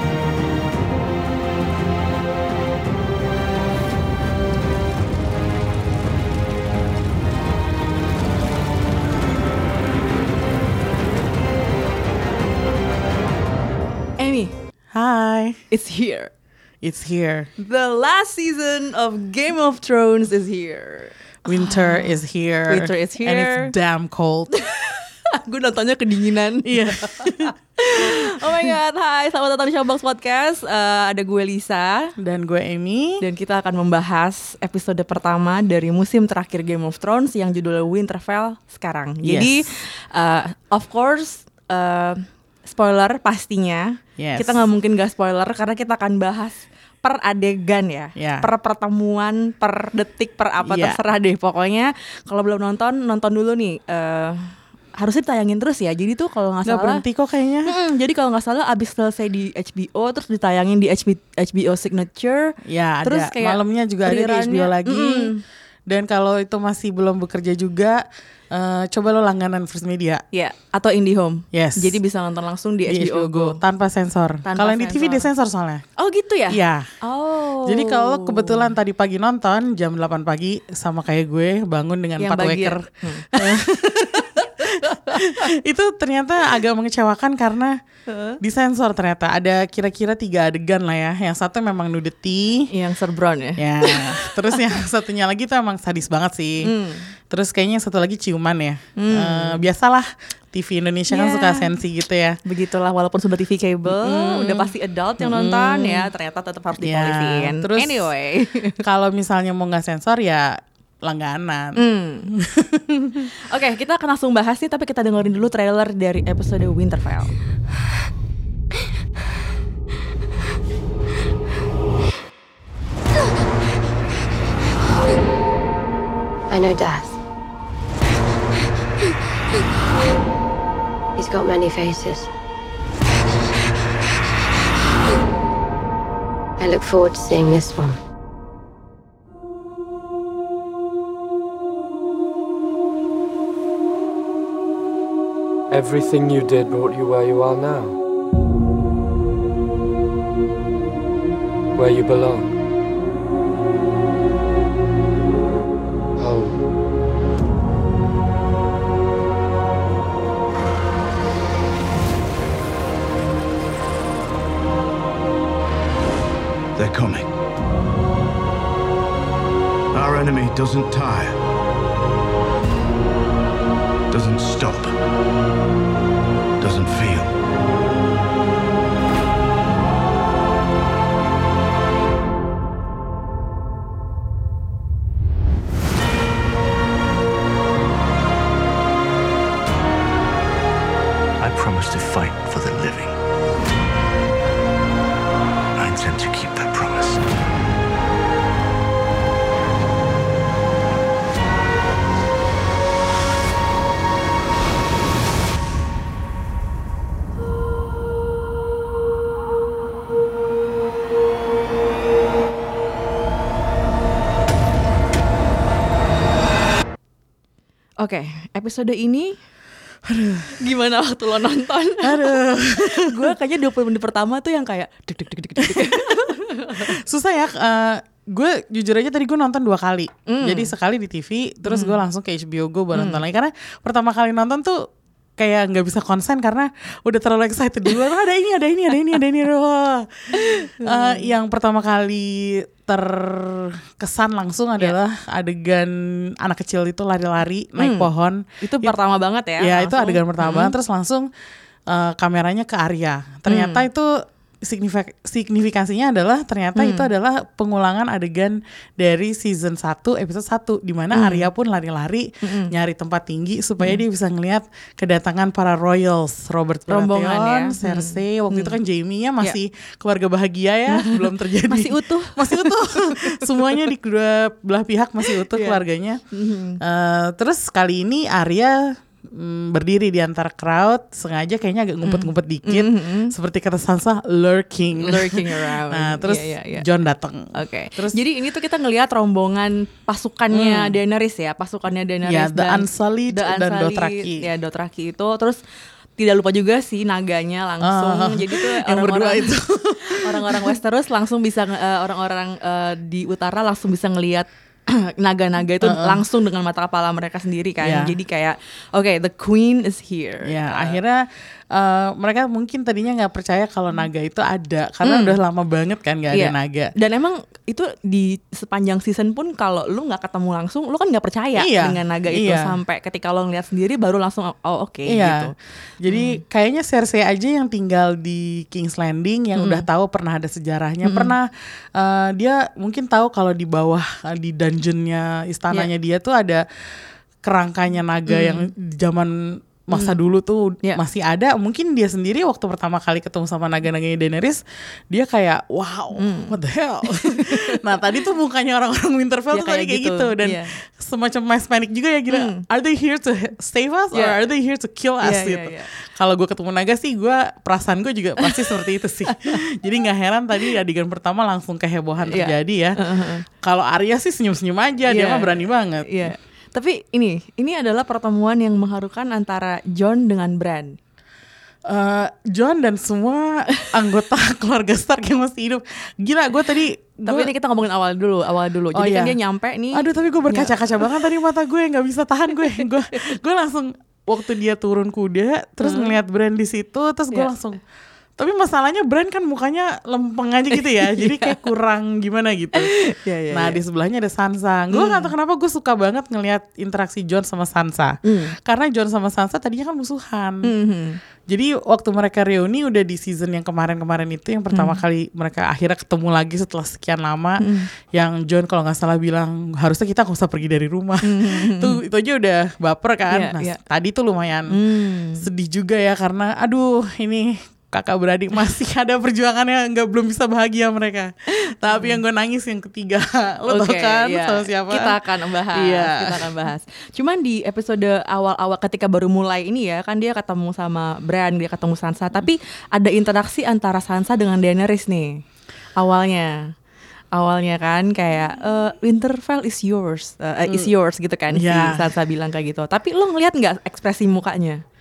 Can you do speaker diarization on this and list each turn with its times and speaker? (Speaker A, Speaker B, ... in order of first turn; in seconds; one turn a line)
Speaker A: 14.2-14.5
Speaker B: 14.9-15.6
Speaker A: 15.7-16.3
Speaker B: 16.8-17.5
Speaker A: 17.6-22.1
Speaker B: 21.4-24.5
Speaker A: 22.7-23.7
Speaker A: 24.5-32.1
Speaker B: 26.6-28.7
Speaker B: 32.2-33.2
Speaker A: 33.2-57.0
Speaker B: 39.2-39.6
Speaker B: 44.2-44.6
Speaker B: 48.2-48.5
Speaker B: 50.6-51.0
Speaker B: 56.6-57.7
Speaker A: 57.6-65.4
Speaker B: 62.6-65.3
Speaker B: 65.9-70.2
Speaker A: 70.3-73.6
Speaker B: 71.5-72.0
Speaker B: 72.9-75.8
Speaker A: 74.5-75.3
Speaker A: 76.0-78.7
Speaker B: 76.5-76.9
Speaker B: 77.7-87.8
Speaker A: 82.2-83.6
Speaker A: 84.1-85.5
Speaker A: 88.1-88.4
Speaker B: 88.4-92.7
Speaker A: 92.7-94.7
Speaker B: 93.6-96.7
Speaker A: 96.6-97.1
Speaker B: 97.3-102.4
Speaker A: 99.0-99.6
Speaker A: 101.1-101.7
Speaker A: 102.5-108.8
Speaker B: 103.9-106.1
Speaker B: 106.8-108.1
Speaker B: 108.8-113.3
Speaker A: 111.8-112.3
Speaker A: 113.5-117.3
Speaker C: 126.5-127.2
Speaker C: 131.2-132.3
Speaker C: 136.6-138.0
Speaker D: 145.7-148.0
Speaker D: 151.8-152.5
Speaker D: 156.2-156.6
Speaker E: 166.8-167.3
Speaker E: 169.9-171.4
Speaker E: 174.1-174.9
Speaker E: 176.6-177.3
Speaker E: 191.4-193.2
Speaker E: 195.8-197.2
Speaker A: 218.0-219.3
Speaker B: 220.1-220.7
Speaker A: 220.6-227.0
Speaker B: 222.0-223.3
Speaker B: 225.6-234.8
Speaker A: 230.3-230.7
Speaker A: 231.7-231.9
Speaker A: 232.9-233.2
Speaker B: 235.4-248.9
Speaker A: 240.3-241.3
Speaker A: 247.8-248.1
Speaker A: 248.6-250.7
Speaker B: 249.6-251.3
Speaker B: 251.9-254.1
Speaker A: 253.5-253.8
Speaker B: 254.6-276.2
Speaker A: 256.8-257.1
Speaker A: 261.1-261.5
Speaker A: 266.9-268.8
Speaker A: 270.9-273.7
Speaker A: 275.5-275.8
Speaker A: 276.3-276.8
Speaker B: 276.8-288.2
Speaker A: 282.0-283.3
Speaker A: 285.0-286.9
Speaker A: 287.5-295.6
Speaker B: 290.5-290.9
Speaker B: 292.2-294.5
Speaker A: 296.2-311.0
Speaker B: 297.8-300.8
Speaker B: 305.8-306.2
Speaker B: 307.8-308.1
Speaker B: 310.4-316.9
Speaker A: 315.0-315.4
Speaker A: 316.3-325.5
Speaker B: 321.6-322.7
Speaker B: 325.1-336.6
Speaker A: 326.1-326.4
Speaker A: 329.6-329.9
Speaker A: 331.0-331.3
Speaker B: 337.4-363.0
Speaker A: 338.3-338.7
Speaker A: 339.9-340.2
Speaker A: 346.2-346.6
Speaker A: 347.1-347.8
Speaker A: 349.5-350.7
Speaker A: 352.3-352.6
Speaker A: 354.1-354.4
Speaker A: 355.2-355.9
Speaker A: 358.4-358.7
Speaker A: 359.3-359.6
Speaker A: 362.3-363.4
Speaker B: 363.6-366.3
Speaker A: 365.1-371.0
Speaker B: 371.9-377.5
Speaker A: 377.3-381.2
Speaker B: 378.9-379.4
Speaker B: 379.9-387.8
Speaker A: 385.8-386.1
Speaker B: 388.4-392.9
Speaker A: 390.7-391.7
Speaker A: 392.7-393.8
Speaker B: 393.5-400.7
Speaker A: 394.9-395.3
Speaker A: 398.2-398.6
Speaker A: 400.6-401.2
Speaker B: 401.5-414.8
Speaker A: 404.7-405.0
Speaker A: 407.6-407.9
Speaker A: 411.2-412.0
Speaker A: 413.3-413.8
Speaker A: 414.7-415.4
Speaker B: 415.4-425.1
Speaker A: 421.6-422.2
Speaker A: 423.7-435.4
Speaker B: 425.7-426.5
Speaker A: 436.0-436.7
Speaker A: 437.3-444.8
Speaker B: 441.5-442.0